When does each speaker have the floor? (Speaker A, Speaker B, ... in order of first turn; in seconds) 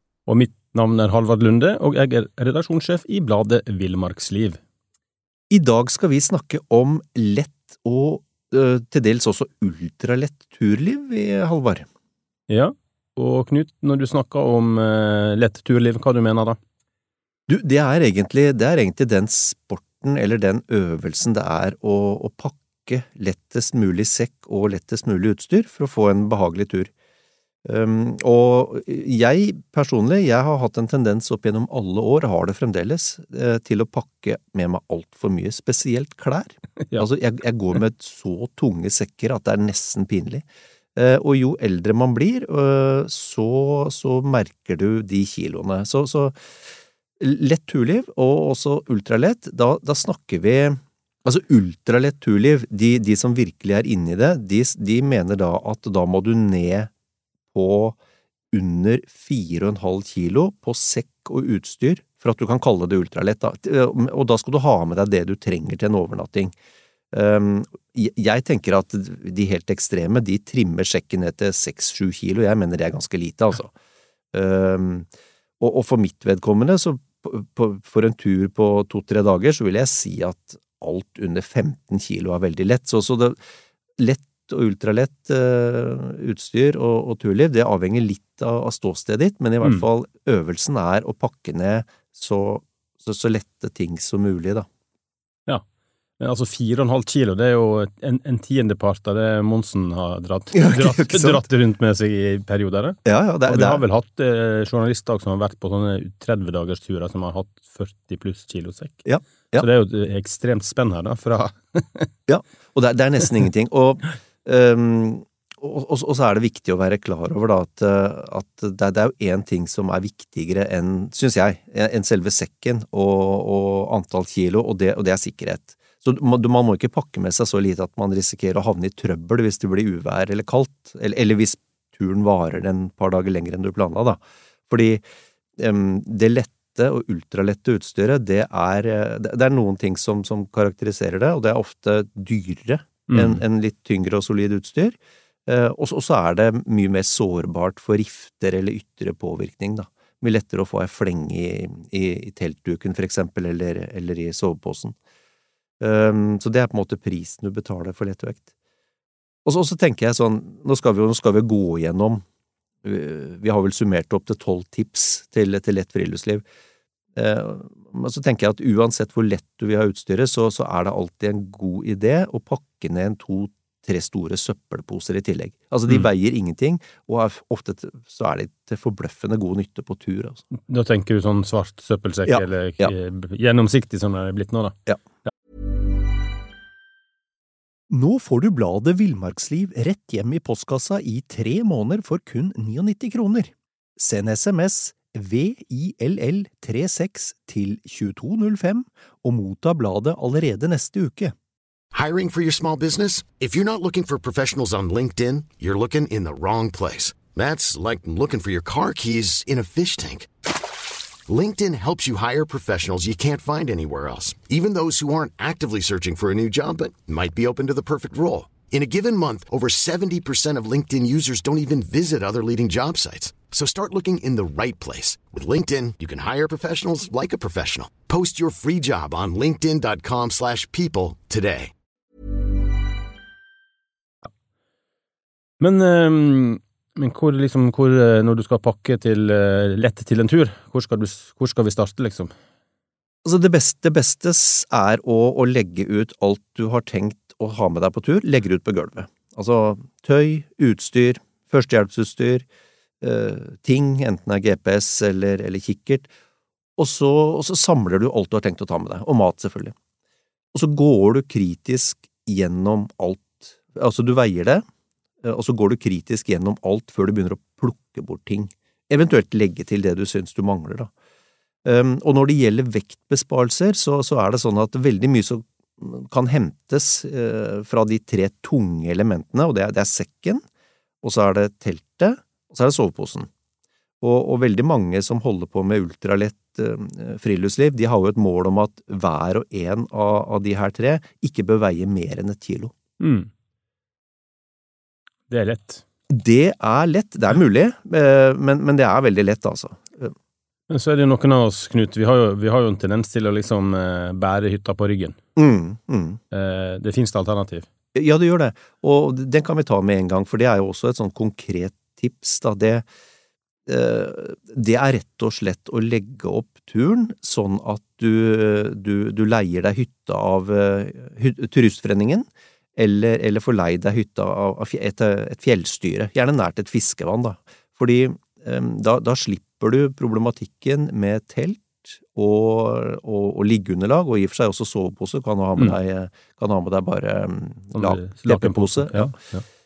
Speaker A: 0.3-4.6, 12.5-16.6, 89.6-89.9, 96.2-109.0, 109.6-112.1, 143.1-143.4, 180.6-184.8, 235.6-242.3, 293.0-293.3, 295.3-295.8, 300.7-305.2, 306.3-307.7, 337.7-339.4
Speaker B: 5.5-11.8, 17.5-26.9, 27.6-46.3, 47.2-56.9, 57.5-58.0, 58.5-66.5, 67.1-73.7, 74.3-75.1, 75.6-83.4, 84.0-94.7, 100.5-101.4, 103.0-103.8, 109.0-109.7, 112.3-135.0, 135.6-144.9, 145.5-154.9, 155.8-158.4, 159.4-162.2, 162.8-166.4, 167.1-180.4, 182.3-182.9, 187.9-201.3, 243.2-252.4, 253.0-256.1, 256.8-259.7, 260.5-264.6, 265.2-270.9, 271.6-280.4, 281.0-283.3, 284.0-292.7, 296.1-300.1, 305.4-306.2, 307.9-312.9, 313.7-339.1
Speaker C: 201.9-210.3, 211.3-231.7